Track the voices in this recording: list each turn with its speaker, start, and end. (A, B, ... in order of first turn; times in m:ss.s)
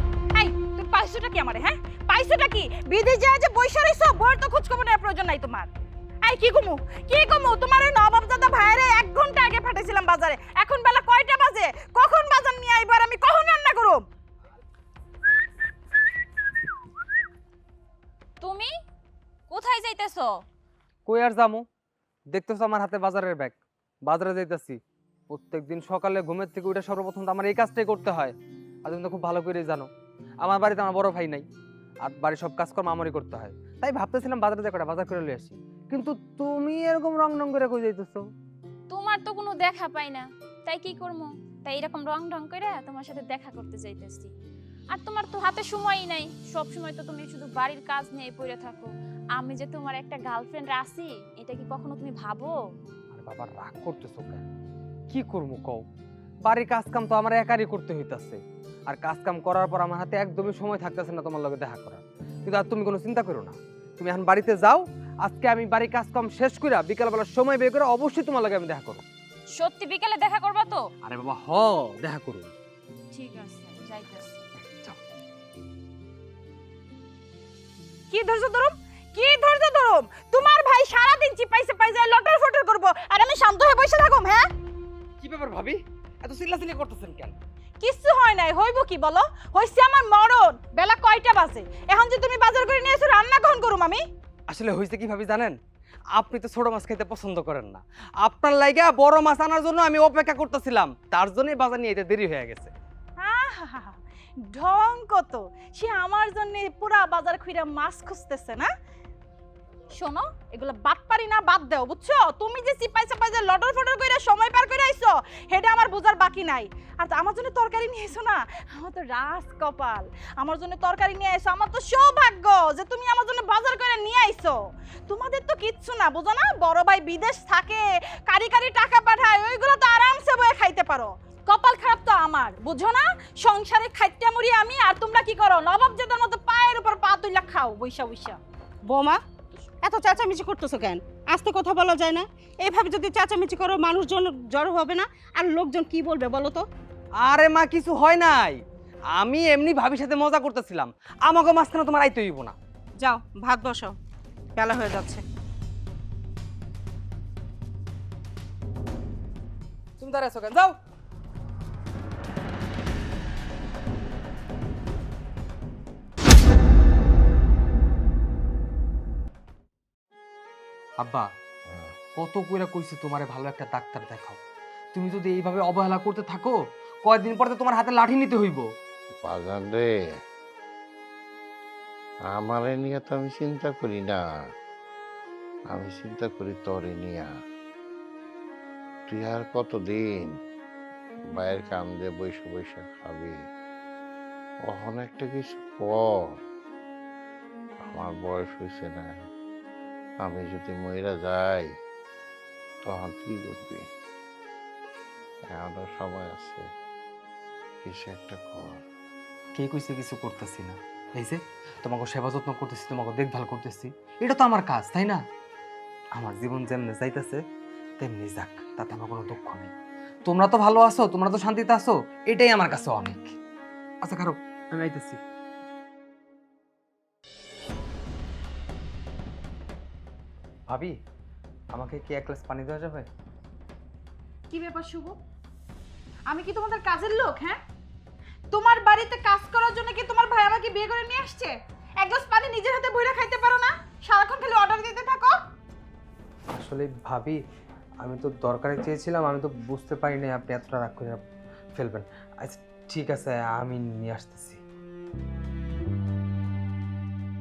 0:00.3-0:05.7 A
0:06.2-0:14.0 A
0:18.4-0:18.7 B
0:19.5-0:20.4 B
0:21.0-0:21.6 C
0:22.3-0:28.3 C
0:28.8-0:29.9 C
0:30.4-0:31.4 C
0:32.0-0:38.2 C
0:38.9-0:44.3 B
0:44.9-0:52.5 B
0:53.1-0:54.4 C
0:55.1-0:55.8 C
0:56.4-1:09.0 C
1:09.5-1:10.8 B
1:11.0-1:12.5 C
1:13.1-1:14.3 B
1:14.6-1:15.0 C
1:18.1-1:24.4 A
1:25.2-1:27.4 C
1:27.8-1:34.0 A
1:34.5-1:35.6 C
1:36.1-1:42.7 C
1:43.2-1:48.7 A
1:49.9-2:18.4 A
2:18.8-2:19.2 D
2:19.8-2:26.7 D
2:27.2-2:32.6 C
2:33.0-2:34.0 D
2:34.6-2:35.2 D
2:40.0-2:40.8 C
2:51.0-2:51.3 C
2:52.1-2:54.4 C
2:54.9-2:58.7 C
2:59.2-3:00.0 E
3:02.3-3:04.2 E
3:05.7-3:07.3 E
3:09.1-3:10.3 E
3:11.3-3:13.4 E
3:14.7-3:16.4 E
3:17.8-3:19.1 E
3:20.2-3:21.7 E
3:22.8-3:23.8 E
3:25.5-3:26.6 E
3:27.8-3:28.8 E
3:29.5-3:35.2 C
3:36.1-3:37.4 C
3:38.0-3:39.7 C
3:40.2-3:43.4 C
3:44.0-3:45.2 C
3:50.7-3:50.9 C
3:51.7-3:53.1 C
3:54.5-3:55.2 A
3:56.3-3:57.6 A
3:58.5-4:05.4 A
4:06.5-4:07.4 C
4:08.0-4:11.2 C
4:11.7-4:14.6 C